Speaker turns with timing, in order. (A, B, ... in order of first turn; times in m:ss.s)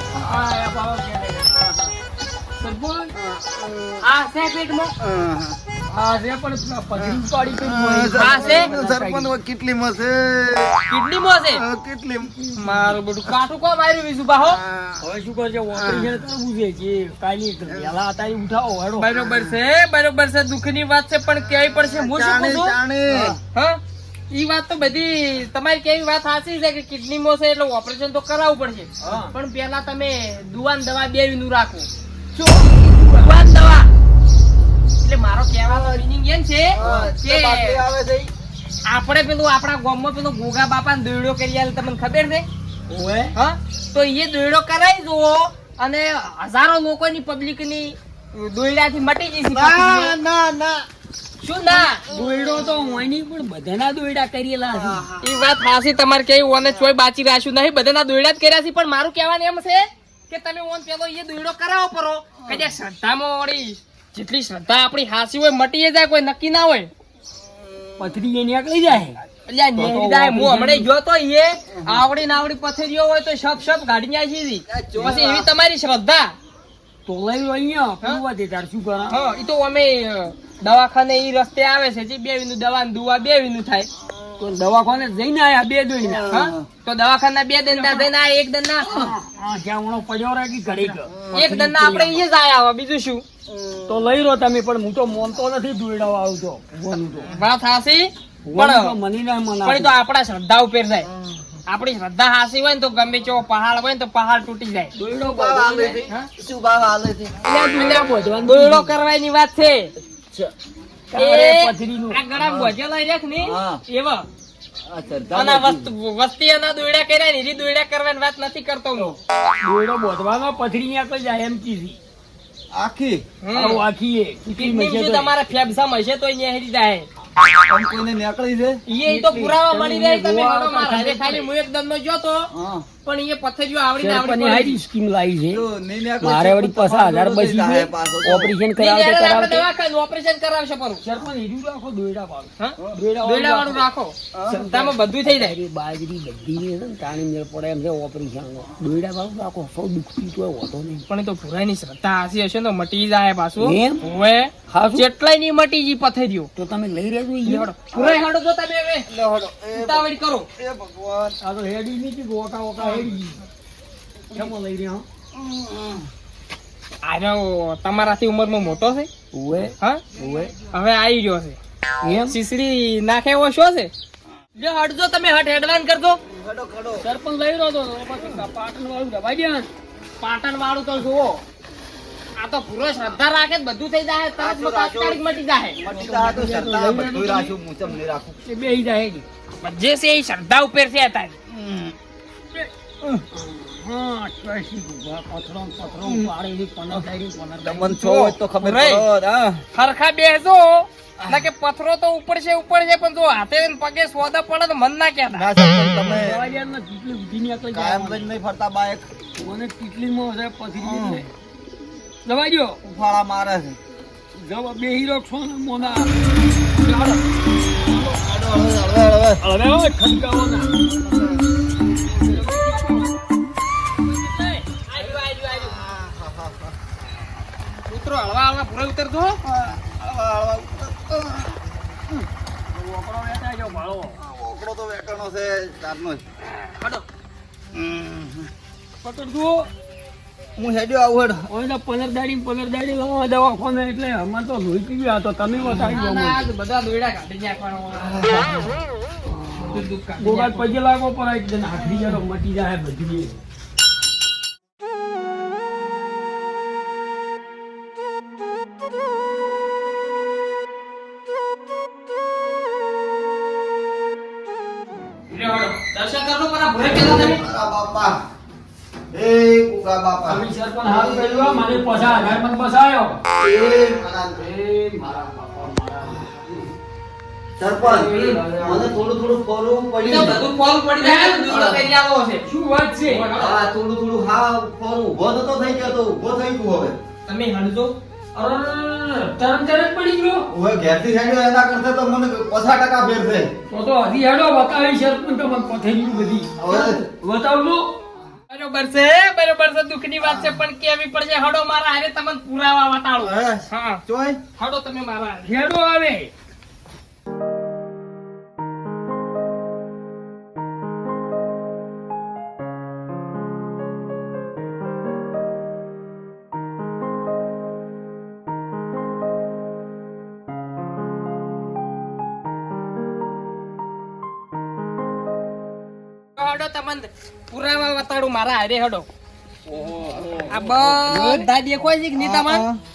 0:00.1-0:01.9 A
0:02.6-0:03.1 A
0:03.2-0:04.1 B
0:04.0-0:04.9 C
0:05.0-0:05.6 B
0:05.9-0:09.3 A
0:07.0-0:12.7 B
0:08.1-0:08.7 C
0:10.9-0:11.6 C
0:12.6-0:14.6 C
0:14.4-0:15.0 B
0:15.0-0:19.1 A
0:15.7-0:16.1 B
0:17.7-0:18.0 B
0:19.0-0:22.8 C
0:19.2-0:19.5 B
0:21.6-0:23.4 B
0:23.1-0:23.3 A
0:23.5-0:31.9 C
0:29.0-0:29.3 A
0:32.4-0:32.7 B
0:33.1-0:33.9 C
0:35.0-0:37.8 C
0:35.6-0:36.0 B
0:36.7-0:38.3 B
0:36.8-0:37.1 A
0:38.8-0:42.4 C
0:42.9-0:43.3 A
0:43.3-0:50.2 C
0:49.5-0:50.9 B
0:51.4-0:52.0 C
0:51.7-0:53.0 B
0:52.1-0:55.0 A
0:54.7-0:55.3 B
0:55.2-1:06.9 C
1:02.4-1:02.7 B
1:07.4-1:07.9 B
1:08.0-1:09.2 A
1:09.5-1:16.3 C
1:09.8-1:10.9 A
1:11.7-1:12.0 B
1:14.7-1:15.5 B
1:17.0-1:19.2 A
1:19.1-1:23.9 C
1:24.4-1:26.3 A
1:26.0-1:26.7 B
1:26.3-1:29.1 C
1:27.7-1:28.1 A
1:28.8-1:32.2 A
1:30.9-1:31.5 B
1:31.3-1:33.2 C
1:33.5-1:34.0 B
1:33.9-1:37.3 A
1:37.1-1:37.3 B
1:37.3-1:39.0 C
1:38.4-1:39.9 A
1:39.6-1:41.1 C
1:41.0-1:41.6 B
1:41.7-1:44.9 C
1:45.0-1:46.0 A
1:45.3-1:48.0 B
1:47.4-1:49.9 C
1:47.5-1:49.0 A
1:51.1-1:52.2 A
1:51.2-1:54.3 C
1:52.4-1:52.7 B
1:53.4-1:53.8 B
1:54.8-1:55.9 B
1:55.3-1:59.1 C
1:59.6-2:02.0 A
2:02.7-2:03.2 B
2:03.4-2:03.8 C
2:03.5-2:05.3 A
2:04.5-2:07.1 C
2:07.6-2:08.8 B
2:08.9-2:12.5 C
2:09.0-2:11.5 A
2:12.5-2:12.9 B
2:13.0-2:14.8 C
2:14.0-2:15.6 A
2:15.5-2:18.5 B
2:16.2-2:19.7 A
2:18.8-2:21.0 C
2:21.0-2:23.8 A
2:22.6-2:25.5 C
2:24.3-2:24.6 B
2:24.5-2:31.0 A
2:31.1-2:36.5 C
2:33.6-2:34.0 A
2:34.7-2:35.0 A
2:36.6-2:37.7 A
2:37.4-2:39.1 C
2:37.9-2:38.2 B
2:39.1-2:41.4 B
2:39.8-2:40.5 C
2:41.4-2:43.4 A
2:42.8-2:43.1 B
2:44.3-2:45.0 A
2:45.3-2:46.1 B
2:47.0-2:49.1 C
2:49.3-2:50.5 A
2:50.7-2:51.6 C
2:52.0-2:52.4 A
2:52.2-2:53.9 C
2:54.6-2:56.2 C
2:56.3-2:57.1 B
2:57.0-2:59.7 A
3:00.2-3:01.4 C
3:02.4-3:05.8 C
3:04.4-3:05.2 B
3:05.8-3:08.4 B
3:05.8-3:07.5 A
3:08.4-3:09.2 A
3:09.6-3:11.3 C
3:11.5-3:12.0 B
3:13.3-3:18.0 A
3:16.0-3:16.3 B
3:17.6-3:19.6 B
3:18.0-3:19.1 C
3:19.7-3:25.5 C
3:21.2-3:21.5 B
3:25.3-3:26.4 B
3:26.0-3:28.3 A
3:27.7-3:29.1 B
3:29.4-3:31.3 A
3:30.7-3:31.2 B
3:32.2-3:32.8 A
3:32.8-3:33.8 B
3:34.4-3:36.1 A
3:36.7-3:37.2 A
3:37.8-3:39.4 B
3:39.4-3:40.7 A
3:40.9-3:41.4 B
3:42.1-3:43.2 A
3:44.1-3:45.8 C
3:45.5-3:46.7 B
3:47.9-3:49.4 C
3:49.4-3:51.6 B
3:52.7-3:54.2 A
3:54.2-3:56.2 B
3:56.8-3:57.0 C
3:57.7-3:58.5 B
3:59.0-3:59.7 A
4:00.6-4:01.5 B
4:01.5-4:06.4 A
4:05.5-4:08.7 C
4:08.0-4:08.6 B
4:09.3-4:13.4 A
4:09.6-4:10.7 C
4:25.3-4:27.4 C
4:26.9-4:28.2 B
4:29.1-4:32.3 B
4:30.2-4:33.2 A
4:33.4-4:34.4 B
4:34.4-4:36.6 A
4:37.6-4:40.4 B
4:37.8-4:38.9 A
4:38.1-4:38.4 C
4:40.0-4:42.5 C
4:41.0-4:41.8 A
4:42.4-4:43.3 A
4:43.0-4:43.6 C
4:43.3-4:47.0 B
4:47.2-4:47.9 C
4:48.3-4:50.5 A
4:50.5-4:53.5 B
4:53.7-4:57.9 A
4:56.5-4:57.0 B
4:58.5-5:04.0 C
5:00.2-5:00.6 B
5:03.2-5:04.4 B
5:04.6-5:05.5 C
5:05.4-5:06.3 A
5:26.4-5:29.1 C
5:29.7-5:31.3 B
5:30.5-5:32.6 C
5:31.1-5:31.4 A
5:32.1-5:32.8 B